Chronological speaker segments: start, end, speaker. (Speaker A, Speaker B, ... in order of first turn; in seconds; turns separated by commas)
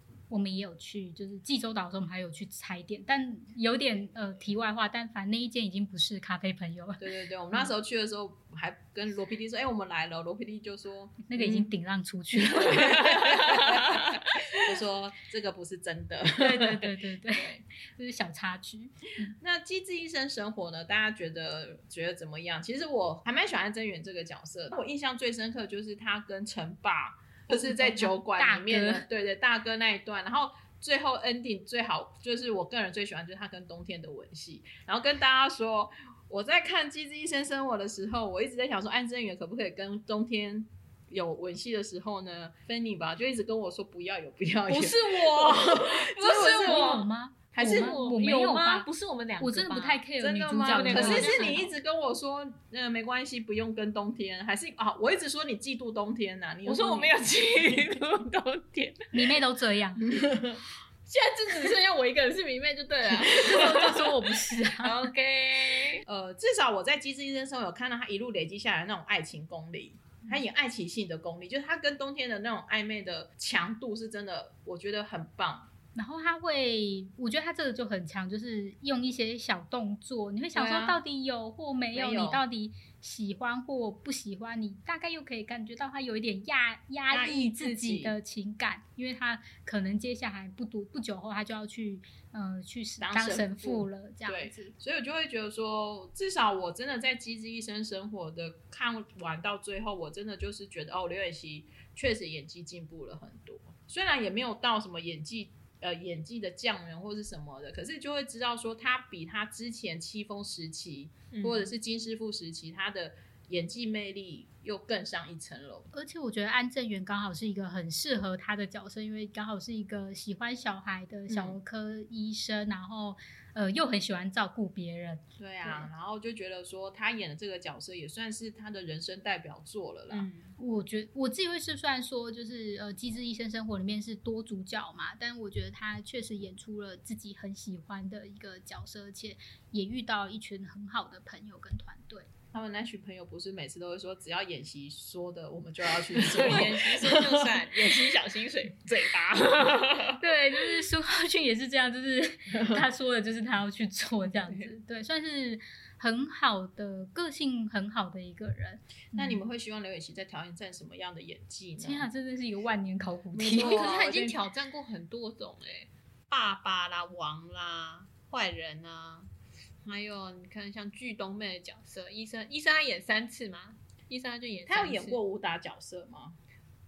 Speaker A: 0.3-7.6, Speaker B: 7.0-11.7, Speaker A: 11.3-13.2, Speaker B: 12.4-17.6, Speaker C: 13.2-14.1, Speaker A: 16.4-19.3, Speaker B: 19.4-47.0, Speaker A: 27.5-29.1, Speaker C: 44.7-50.0, Speaker A: 46.2-48.9, Speaker B: 47.5-48.0, Speaker A: 49.4-51.6, Speaker B: 50.2-57.1, Speaker C: 50.6-51.7, Speaker C: 56.6-59.3, Speaker A: 59.1-60.0, Speaker B: 60.0-60.6, Speaker C: 61.0-66.0, Speaker A: 63.2-65.1, Speaker B: 66.0-75.7, Speaker A: 75.9-94.7, Speaker B: 80.5-81.0, Speaker B: 81.9-82.4, Speaker B: 87.1-88.1, Speaker B: 93.0-115.9, Speaker C: 111.3-111.7, Speaker A: 115.9-125.9, Speaker B: 121.3-121.6, Speaker B: 125.4-130.3, Speaker C: 130.1-130.5, Speaker A: 130.6-142.3, Speaker B: 142.5-147.7, Speaker C: 146.1-150.8, Speaker A: 150.2-159.4, Speaker B: 152.5-152.8, Speaker C: 154.5-154.7, Speaker B: 159.1-162.1, Speaker A: 161.8-163.9, Speaker B: 163.3-164.4, Speaker C: 163.4-169.3, Speaker C: 169.8-175.2, Speaker B: 174.7-176.4